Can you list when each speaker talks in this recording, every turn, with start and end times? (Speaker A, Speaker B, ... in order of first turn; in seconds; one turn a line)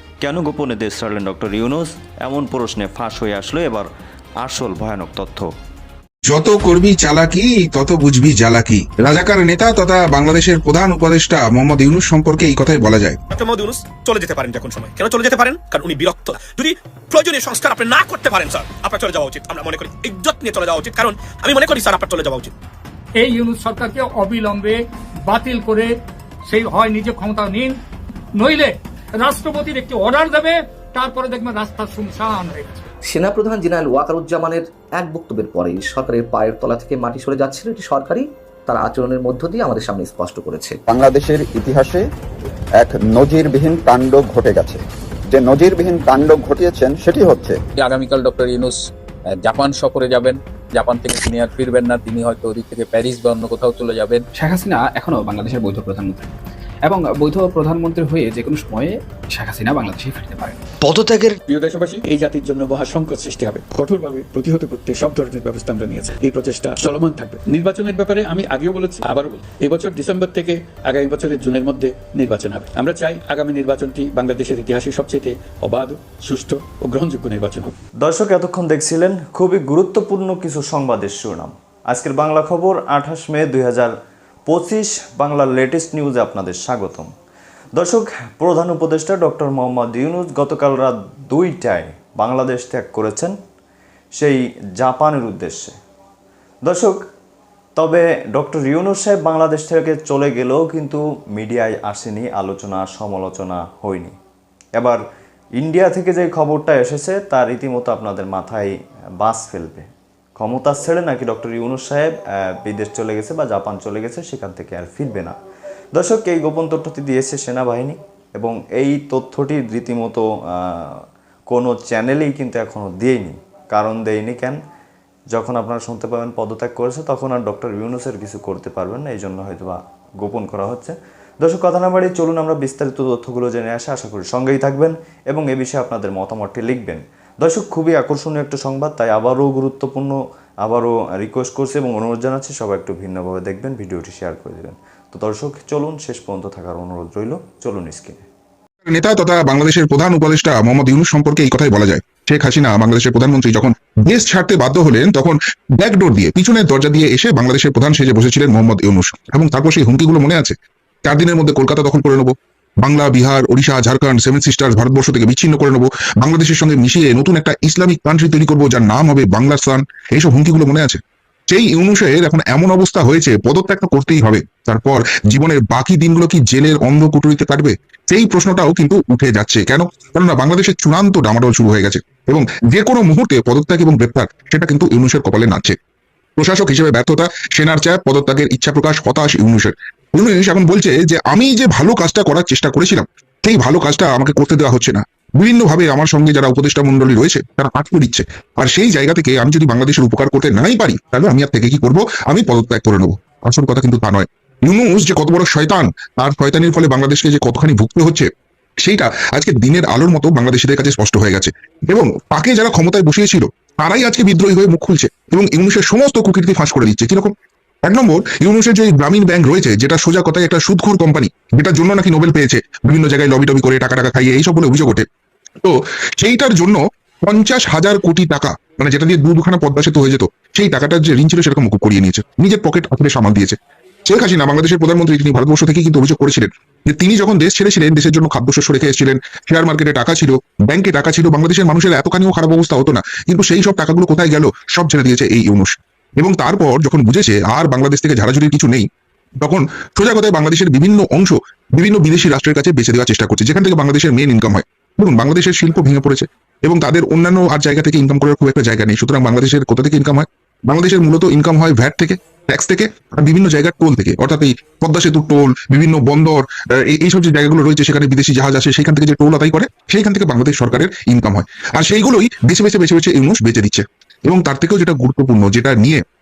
Speaker A: 0.2-3.9
Speaker A: 4.4-5.5
Speaker B: 6.2-13.2
Speaker C: 13.3-22.5
Speaker D: 23.2-26.0
Speaker D: 26.5-27.8
Speaker D: 28.4-32.9
Speaker E: 33.0-40.8
Speaker F: 40.9-42.1
Speaker F: 42.8-47.6
Speaker G: 47.8-54.2
Speaker H: 54.3-56.3
Speaker H: 56.8-60.6
Speaker A: 60.8-61.4
Speaker I: 61.5-77.8
Speaker A: 78.0-83.9
Speaker A: 84.5-87.1
Speaker A: 87.8-93.3
Speaker A: 94.2-95.7
Speaker A: 96.6-97.0
Speaker A: 97.8-104.2
Speaker A: 104.8-105.0
Speaker A: 105.6-115.4
Speaker A: 115.9-124.6
Speaker A: 125.3-148.2
Speaker B: 148.8-185.8
Speaker B: 186.4-208.3
Speaker B: 208.8-225.1
Speaker B: 225.6-248.9
Speaker B: 249.4-276.0